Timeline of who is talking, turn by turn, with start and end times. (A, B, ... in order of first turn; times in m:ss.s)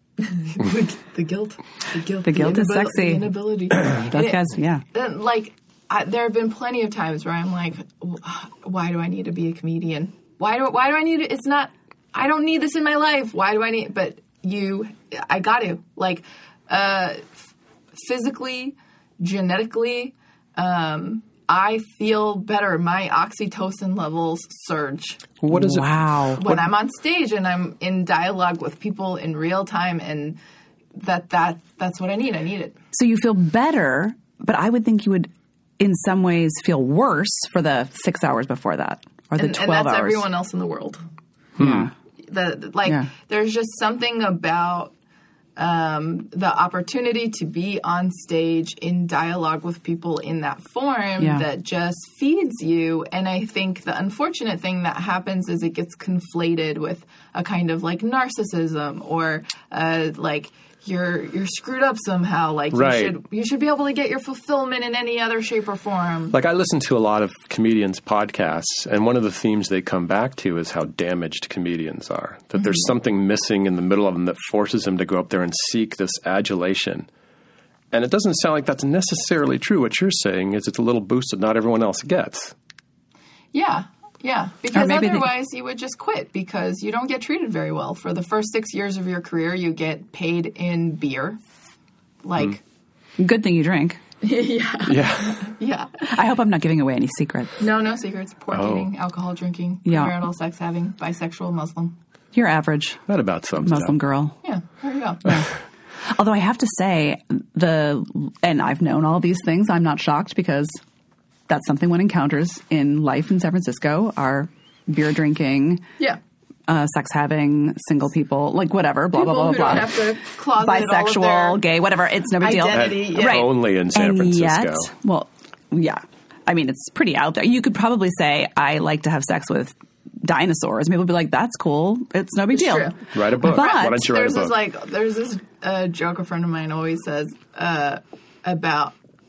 0:00.2-0:25.3 A
0:02.2-0:04.8 B
0:25.4-0:26.6 C
0:25.5-0:26.4 B
0:26.4-0:30.4 A
0:30.9-0:32.8 A
0:32.9-0:40.2 B
0:39.4-0:41.0 A
0:41.6-0:41.9 C
0:41.6-0:41.9 B
0:42.2-0:44.9 A
0:45.6-1:06.3 A
0:51.2-0:51.4 B
1:02.7-1:03.2 C
1:06.3-1:17.1 C
1:17.9-1:22.5 C
1:23.5-1:31.4 A
1:24.7-1:25.3 B
1:32.2-1:32.6 A
1:33.2-1:34.0 B
1:34.2-1:36.1 A
1:34.8-1:35.5 C
1:36.0-1:37.6 B
1:37.6-1:41.9 A
1:38.5-1:38.9 C
1:39.8-1:40.2 B
1:42.3-1:43.0 B
1:43.1-1:44.0 C
1:43.6-1:44.4 B
1:44.4-1:45.4 A
1:46.0-1:50.8 B
1:51.5-1:55.8 B
1:56.7-2:00.0 B
1:59.1-2:01.6 A
2:00.6-2:14.1 B
2:02.4-2:03.5 A
2:02.7-2:04.9 C
2:12.5-2:18.9 A
2:13.1-2:14.6 C